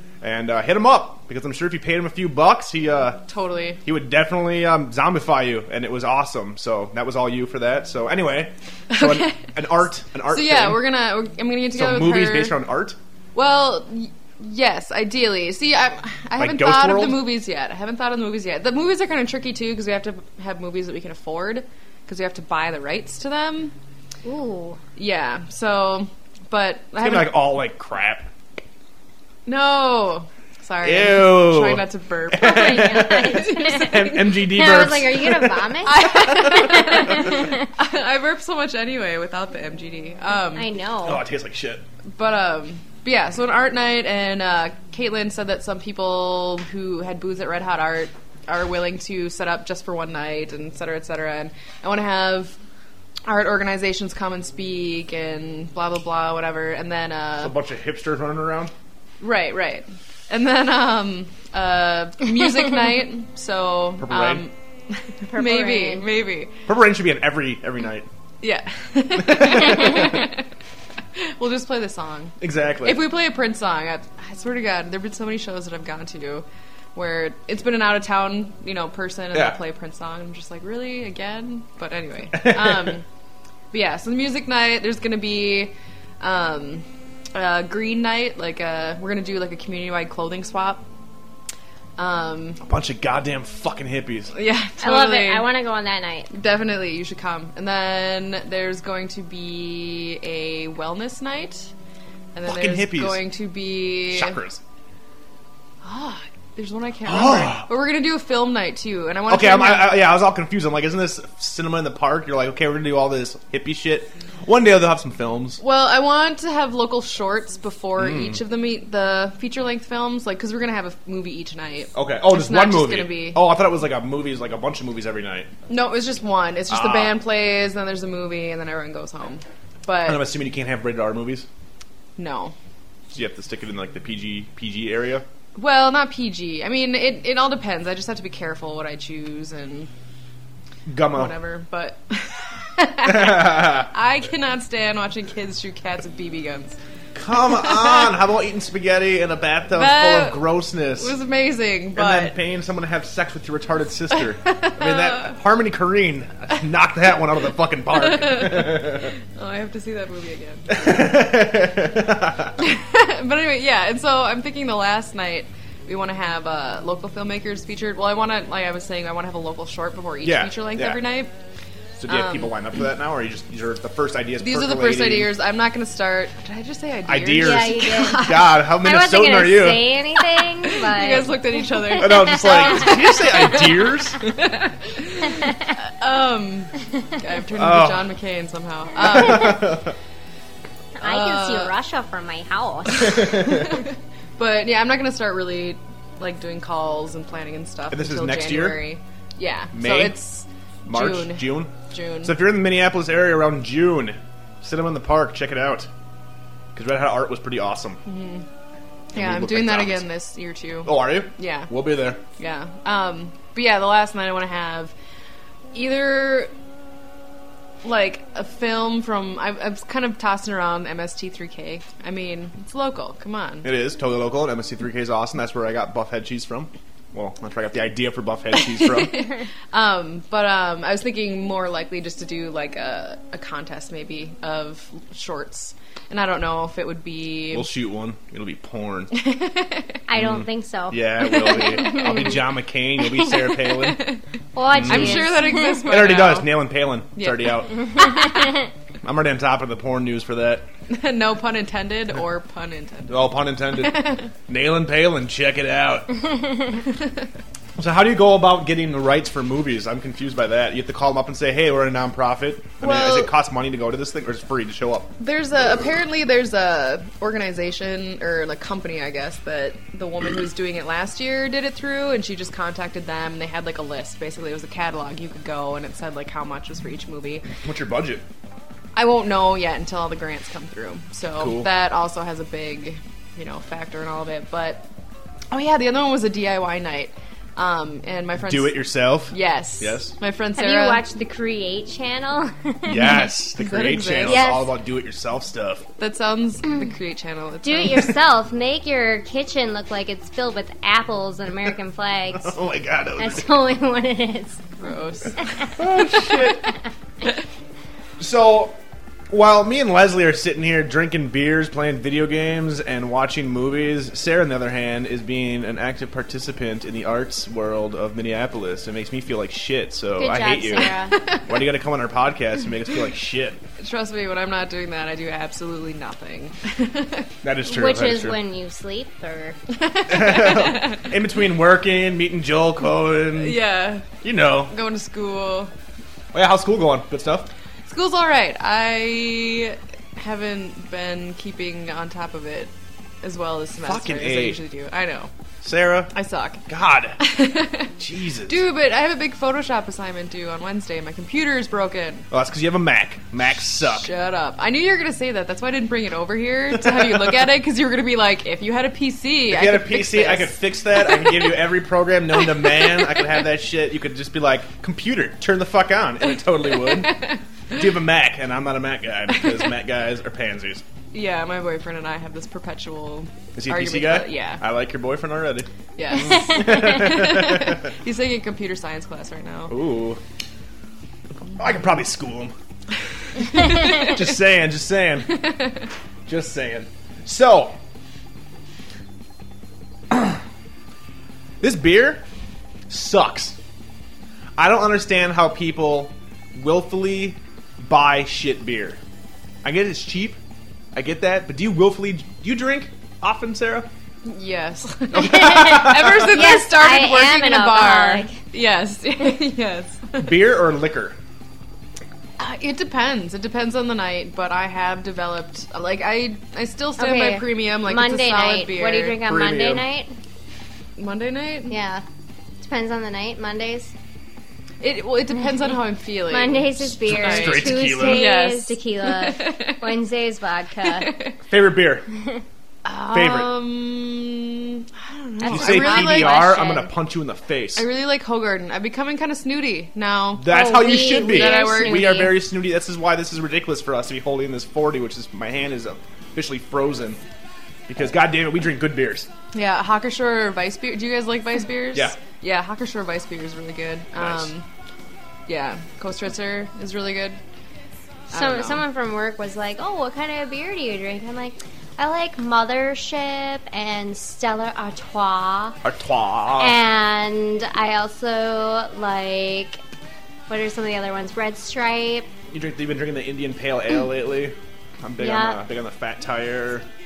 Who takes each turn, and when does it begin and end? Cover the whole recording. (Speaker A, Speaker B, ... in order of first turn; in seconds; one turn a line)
Speaker A: 0.2-3.2
Speaker B: 3.3-3.8
Speaker A: 3.8-10.8
Speaker B: 8.9-9.6
Speaker B: 10.3-12.6
Speaker A: 11.7-13.0
Speaker B: 13.3-23.7
Speaker A: 16.4-17.2
Speaker C: 24.2-24.8
Speaker B: 25.0-27.3
Speaker A: 27.0-28.3
Speaker B: 29.5-34.5
Speaker A: 30.8-37.4
Speaker C: 32.3-37.5
Speaker B: 35.8-40.7
Speaker C: 40.5-41.2
Speaker A: 41.0-41.8
Speaker B: 42.1-52.5
Speaker B: 53.2-57.5
Speaker A: 57.4-58.7
Speaker B: 59.2-66.5
Speaker A: 64.0-64.5
Speaker C: 65.3-66.1
Speaker A: 66.7-68.1
Speaker B: 68.4-70.4
Speaker A: 69.2-70.1
Speaker B: 71.2-83.0
Speaker A: 72.4-73.0
Speaker A: 82.3-82.9
Speaker B: 83.7-90.8
Speaker B: 92.0-92.6
Speaker A: 92.6-94.3
Speaker B: 94.3-95.5
Speaker C: 94.8-96.3
Speaker B: 96.3-101.7
Speaker B: 102.3-104.4
Speaker A: 102.4-103.2
Speaker A: 104.1-104.6
Speaker B: 105.8-110.0
Speaker A: 107.0-107.7
Speaker A: 109.3-115.6
Speaker B: 115.6-123.4
Speaker A: 118.0-118.4
Speaker A: 121.9-125.5
Speaker B: 125.7-130.3
Speaker A: 126.7-127.2
Speaker A: 130.0-131.5
Speaker B: 132.2-132.5
Speaker A: 133.1-135.2
Speaker B: 135.6-139.9
Speaker A: 140.9-141.3
Speaker B: 141.1-146.8
Speaker A: 143.0-143.9
Speaker A: 147.1-151.2
Speaker B: 147.5-148.1
Speaker B: 149.7-152.3
Speaker A: 151.9-159.1
Speaker B: 154.4-155.3
Speaker B: 158.0-160.8
Speaker A: 160.7-162.6
Speaker B: 162.6-171.3
Speaker A: 170.2-171.0
Speaker A: 172.0-175.3
Speaker B: 172.1-172.5
Speaker B: 174.4-178.6
Speaker A: 177.1-179.9
Speaker C: 177.4-182.9
Speaker B: 180.7-189.8
Speaker A: 181.9-184.2
Speaker A: 187.6-188.1
Speaker A: 189.0-189.9
Speaker C: 191.0-193.4
Speaker B: 191.0-191.7
Speaker B: 192.9-202.3
Speaker A: 193.2-193.6
Speaker A: 197.9-198.8
Speaker A: 199.7-200.2
Speaker A: 200.8-205.9
Speaker A: 206.7-208.0
Speaker B: 208.1-208.4
Speaker B: 209.1-211.7
Speaker A: 209.1-210.1
Speaker A: 210.8-212.2
Speaker B: 212.4-214.9
Speaker B: 215.7-216.5
Speaker B: 217.8-223.7
Speaker A: 223.6-229.3
Speaker B: 229.1-237.7
Speaker A: 237.5-239.1
Speaker B: 239.1-240.0
Speaker C: 240.1-242.4
Speaker A: 240.1-244.1
Speaker B: 243.9-244.2
Speaker C: 244.5-246.0
Speaker A: 244.7-245.3
Speaker B: 244.8-246.6
Speaker A: 245.9-248.2
Speaker B: 247.1-247.6
Speaker A: 249.0-250.7
Speaker B: 250.9-254.3
Speaker A: 253.1-256.1
Speaker A: 257.8-265.1
Speaker B: 262.8-263.3
Speaker B: 265.2-277.5
Speaker A: 277.5-278.2
Speaker B: 278.9-284.8
Speaker A: 281.4-281.7
Speaker B: 285.5-291.0
Speaker A: 288.4-290.1
Speaker C: 290.6-293.3
Speaker A: 292.9-295.8
Speaker B: 293.6-294.5
Speaker C: 294.2-294.7
Speaker B: 296.0-298.1
Speaker C: 297.6-302.6
Speaker A: 302.3-303.6
Speaker C: 303.2-304.6
Speaker B: 304.8-306.2
Speaker A: 305.8-306.7
Speaker A: 308.2-308.8
Speaker A: 309.3-320.9
Speaker C: 320.2-321.1
Speaker B: 321.2-321.5
Speaker A: 321.5-323.6
Speaker B: 323.8-327.3
Speaker A: 327.4-328.4
Speaker C: 327.6-329.6
Speaker B: 329.8-331.1
Speaker A: 330.1-333.6
Speaker B: 333.3-334.1
Speaker A: 334.2-334.7
Speaker B: 334.7-335.7
Speaker A: 336.3-337.5
Speaker B: 337.9-345.3
Speaker A: 343.8-344.6
Speaker A: 345.6-346.1
Speaker B: 346.1-346.6
Speaker A: 346.7-347.2
Speaker B: 347.2-347.9
Speaker A: 348.0-348.6
Speaker B: 348.4-352.3
Speaker A: 352.3-354.1
Speaker B: 353.8-361.5
Speaker A: 356.8-357.3
Speaker A: 359.5-370.8
Speaker B: 362.6-363.1
Speaker B: 366.7-367.4
Speaker B: 371.1-374.6
Speaker A: 373.5-377.9
Speaker B: 375.9-379.8
Speaker A: 379.7-380.2
Speaker A: 381.5-382.5
Speaker B: 383.6-384.1
Speaker A: 383.6-385.4
Speaker B: 385.3-385.8
Speaker A: 386.3-387.8
Speaker A: 390.1-390.4
Speaker A: 391.6-392.2
Speaker A: 392.9-393.6
Speaker A: 394.6-399.0
Speaker A: 399.6-400.4
Speaker A: 400.9-403.9
Speaker B: 404.2-410.3
Speaker A: 405.1-406.5
Speaker C: 405.2-408.4
Speaker A: 410.2-411.2
Speaker B: 412.4-419.2
Speaker C: 417.0-420.1
Speaker A: 419.2-419.8
Speaker B: 421.0-421.8
Speaker C: 421.7-422.0
Speaker C: 422.6-423.9
Speaker B: 424.8-429.9
Speaker C: 426.3-431.2
Speaker A: 427.0-428.3
Speaker B: 430.8-431.3
Speaker A: 431.5-432.1
Speaker B: 432.8-436.9
Speaker A: 433.1-433.5
Speaker C: 435.4-436.6
Speaker A: 435.4-437.9
Speaker B: 437.7-442.3
Speaker A: 440.4-447.2
Speaker C: 440.5-442.4
Speaker A: 447.9-449.3
Speaker B: 449.5-454.6
Speaker A: 454.1-454.5
Speaker B: 455.5-457.4
Speaker B: 458.3-458.8
Speaker C: 458.3-465.8
Speaker A: 465.8-466.8
Speaker C: 466.6-469.8
Speaker C: 470.5-472.3
Speaker A: 472.5-476.9
Speaker C: 475.2-475.6